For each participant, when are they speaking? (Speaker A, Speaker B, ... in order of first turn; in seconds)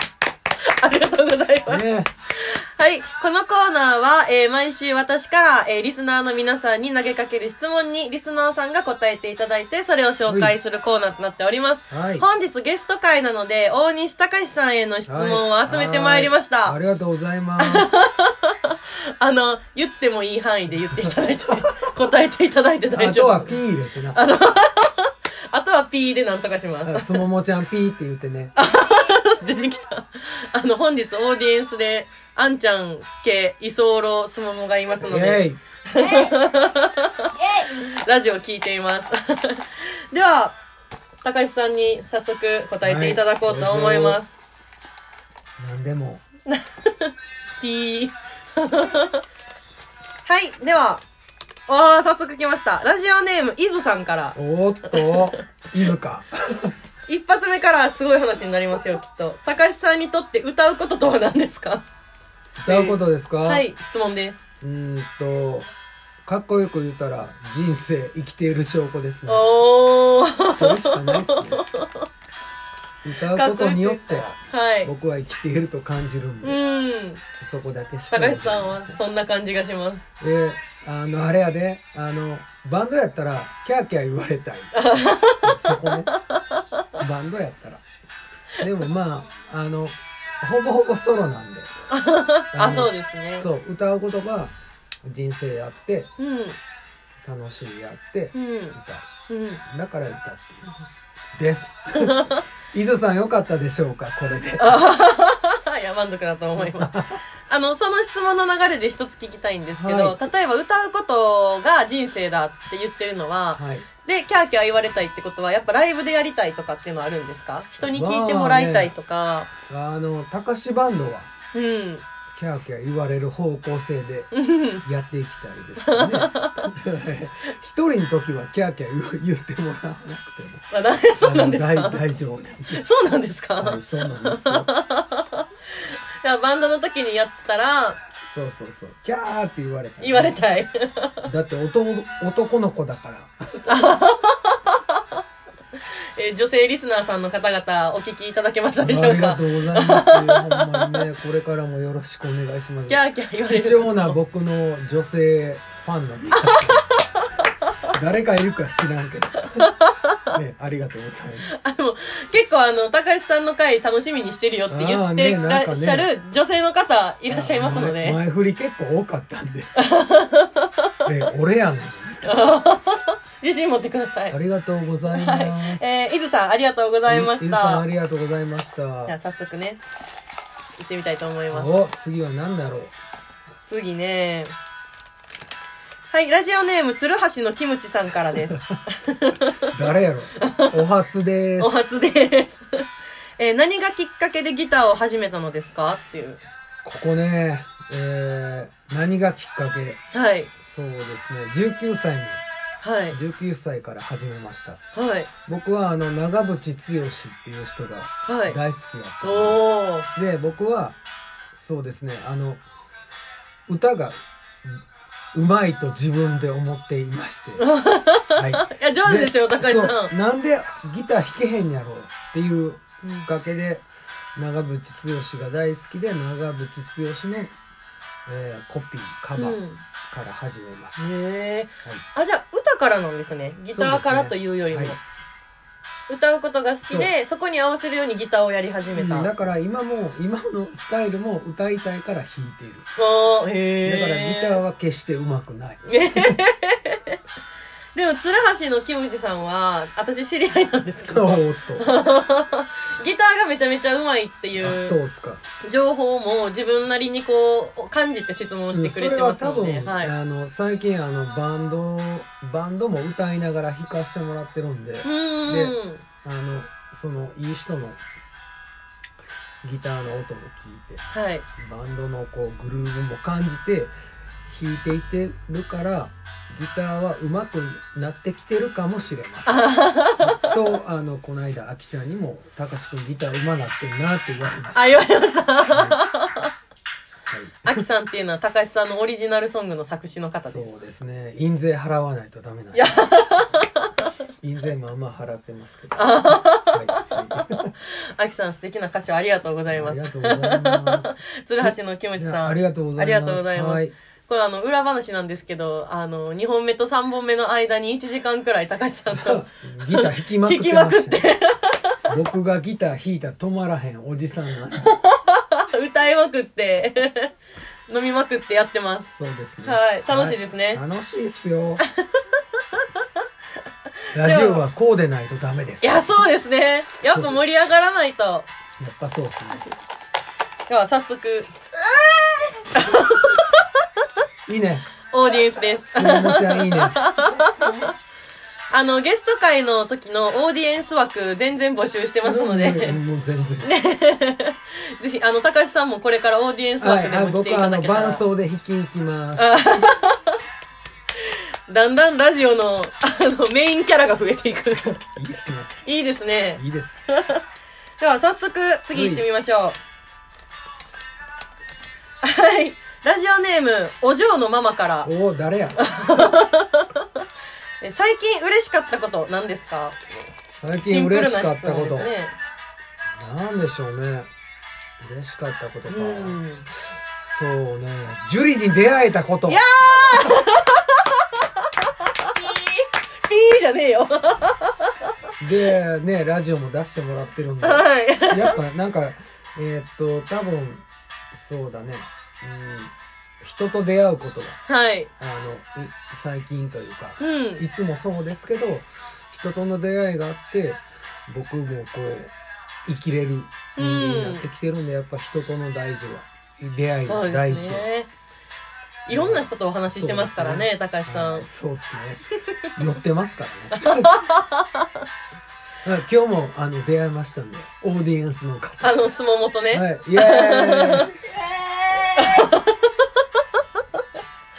Speaker A: 0.6-16.8, 17.6-23.6, 24.1-27.2, 28.6-40.6, 41.2-44.3, 46.5-49.2, 50.3-51.0, 51.7-55.4, 57.1-61.8, 62.7-64.4, 69.3-72.1, 73.3-74.9, 76.4-77.2, 78.1-80.0, 84.8-86.8, 91.9-93.5, 96.2-96.6, 98.3-98.8, 99.3-99.6, 102.0-102.4, 104.6-106.9, 107.5-119.5, 121.5-122.0, 124.3-124.8, 125.8-126.7, 130.7-132.0, 132.7-138.0, 140.0-141.3, 143.7-145.2, 146.2-151.0, 152.9-154.2, 156.4-157.0, 159.6-160.3, 161.5-168.2, 169.8-171.1, 172.2-174.4, 175.1-177.8, 179.1-179.8, 180.8-181.9, 183.6-184.5, 186.1-189.9, 190.4-190.8, 191.6-192.9, 193.4-196.4, 200.1-200.5, 202.8-203.2, 204.9-205.3, 208.3-208.6, 209.2-210.1, 217.6-220.1, 223.0-223.3, 229.4-229.8, 231.0-235.0, 236.1-239.3, 243.0-244.6, 245.8-247.2, 247.9-255.0, 255.6-260.1, 265.0-266.0, 271.1-271.5, 279.5-280.7, 284.8-286.5, 287.6-290.7, 292.7-293.9, 296.0-312.0, 314.8-317.3, 317.9-319.1, 319.6-320.8, 322.2-323.1, 324.0-324.6, 325.8-328.5, 330.7-331.5, 332.7-334.0, 335.1-337.9, 338.7-343.0, 343.6-348.2, 349.4-350.4, 351.2-355.0, 355.8-357.4, 358.0-359.8, 362.2-365.1, 365.8-367.2, 367.8-370.0, 370.8-372.4, 375.9-376.7, 379.5-385.1, 387.6-388.6, 394.7-395.1, 397.2-397.6, 403.8-404.4, 407.0-408.1, 409.1-411.4, 413.8-415.1, 418.8-421.1, 422.0-424.0
Speaker B: 1.7-2.1, 10.3-10.6, 11.9-12.3, 15.1-17.9, 23.0-24.2, 26.9-28.6, 35.0-35.6, 42.8-44.2, 45.6-46.2, 54.4-56.7, 62.6-63.7, 64.6-65.7, 66.2-69.5, 70.5-71.6, 73.0-74.3, 74.8-76.6, 77.4-79.0, 80.2-86.1, 87.0-87.8, 88.6-91.7, 92.5-94.5, 95.0-96.1, 97.2-99.1, 99.7-100.7, 101.4-104.8, 106.6-107.2, 109.8-110.2, 113.6-113.9, 117.8-118.9, 119.7-121.3, 122.3-124.3, 124.8-130.7, 131.2-132.8, 133.6-134.7, 138.2-140.4, 141.2-143.8, 148.8-156.9, 157.9-159.7, 160.3-161.5, 164.7-166.1, 167.3-169.7, 171.1-172.6, 174.3-175.9, 177.1-179.1, 181.5-182.9, 188.3-188.8, 189.7-191.8, 196.8-200.0, 200.6-202.4, 203.1-204.8, 205.5-211.0, 211.6-212.6, 213.7-214.8, 215.3-217.7, 218.3-227.6, 228.3-231.1, 233.7-235.0, 236.9-237.1, 238.9-242.9, 243.8-246.4, 251.0-251.9, 254.6-255.4, 258.7-268.0, 269.6-271.1, 271.6-273.9, 274.5-285.1, 285.7-286.0, 287.3-287.9, 290.4-293.1, 294.4-297.7, 299.7-303.9, 309.1-311.4, 312.1-315.0, 319.1-321.8, 324.1-326.2, 327.1-327.4, 328.8-329.7, 334.5-334.9, 335.9-337.1, 342.2-343.7, 346.8-349.7, 355.2-355.8, 356.6-357.1, 358.9-359.3, 365.0-365.9, 370.6-372.1, 373.2-374.3, 375.0-376.4, 377.2-380.5, 385.4-394.6, 395.2-402.3, 402.9-407.9, 409.1-414.1, 415.8-419.0, 419.7-421.2